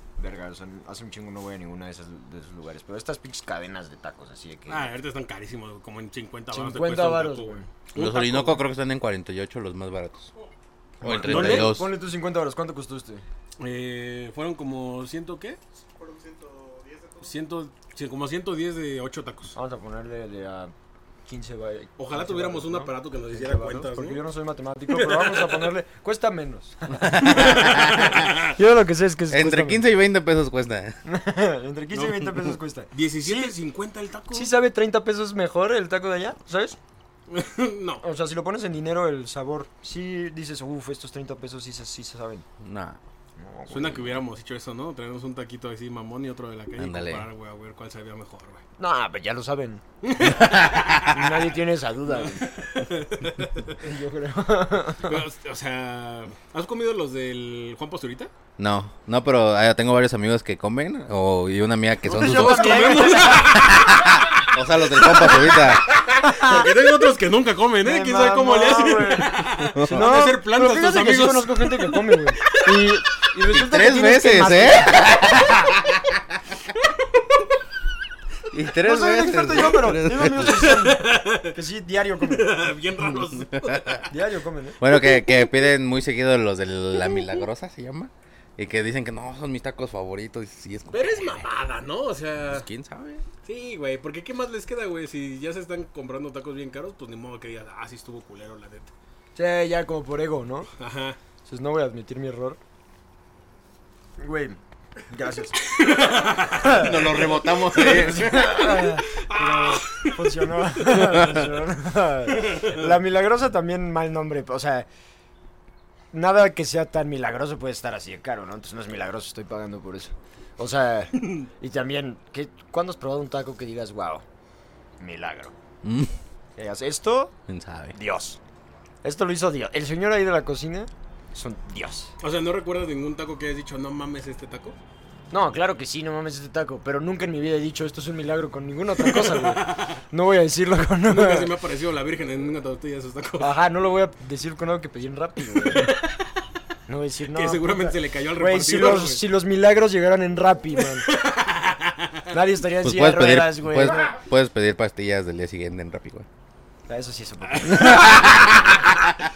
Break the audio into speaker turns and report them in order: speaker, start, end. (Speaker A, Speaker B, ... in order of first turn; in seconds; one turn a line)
Speaker A: 0.2-4.9
Speaker B: 4.7-8.6
Speaker A: 6.5-7.7
Speaker C: 7.9-10.3
Speaker C: 11.0-11.9
Speaker A: 11.0-13.2
Speaker B: 11.1-11.8
Speaker B: 13.6-15.6
Speaker B: 17.1-19.5
Speaker A: 19.5-20.7
Speaker A: 21.3-29.8
Speaker B: 22.0-24.2
Speaker B: 24.9-25.7
Speaker C: 27.0-28.2
Speaker B: 27.4-28.5
Speaker C: 29.3-31.0
Speaker A: 31.0-33.5
Speaker B: 31.9-34.5
Speaker A: 34.3-36.8
Speaker B: 37.3-38.0
Speaker A: 38.0-42.4
Speaker C: 42.6-43.0
Speaker A: 43.4-44.2
Speaker B: 43.7-48.6
Speaker C: 46.8-47.3
Speaker A: 48.8-49.8
Speaker B: 50.0-51.5
Speaker C: 50.4-50.8
Speaker A: 51.0-52.5
Speaker B: 52.1-53.8
Speaker A: 53.8-55.2
Speaker B: 55.0-58.3
Speaker C: 58.6-65.8
Speaker A: 62.0-63.6
Speaker B: 62.1-72.7
Speaker A: 66.2-66.7
Speaker A: 67.8-75.7
Speaker C: 69.7-70.3
Speaker C: 73.5-76.0
Speaker C: 78.5-80.7
Speaker A: 78.8-82.7
Speaker B: 80.4-81.5
Speaker B: 82.2-84.1
Speaker C: 83.5-84.0
Speaker A: 84.1-84.8
Speaker C: 84.8-91.4
Speaker B: 90.9-92.7
Speaker C: 92.4-93.2
Speaker B: 93.4-98.9
Speaker A: 99.3-100.7
Speaker B: 100.8-101.2
Speaker A: 101.4-102.6
Speaker A: 104.2-105.6
Speaker B: 105.6-111.2
Speaker A: 106.5-114.9
Speaker C: 106.6-108.5
Speaker B: 112.4-112.9
Speaker A: 116.1-124.2
Speaker A: 125.0-125.5
Speaker C: 125.8-126.1
Speaker A: 126.6-127.3
Speaker C: 127.5-127.9
Speaker A: 127.9-128.4
Speaker A: 129.0-132.1
Speaker B: 132.2-134.8
Speaker A: 135.3-141.5
Speaker B: 139.0-140.0
Speaker B: 141.0-143.5
Speaker A: 143.4-146.0
Speaker B: 145.7-146.0
Speaker A: 146.9-151.1
Speaker B: 147.3-149.2
Speaker B: 150.8-152.3
Speaker A: 152.3-154.2
Speaker C: 152.8-156.3
Speaker A: 156.9-158.8
Speaker B: 157.5-159.1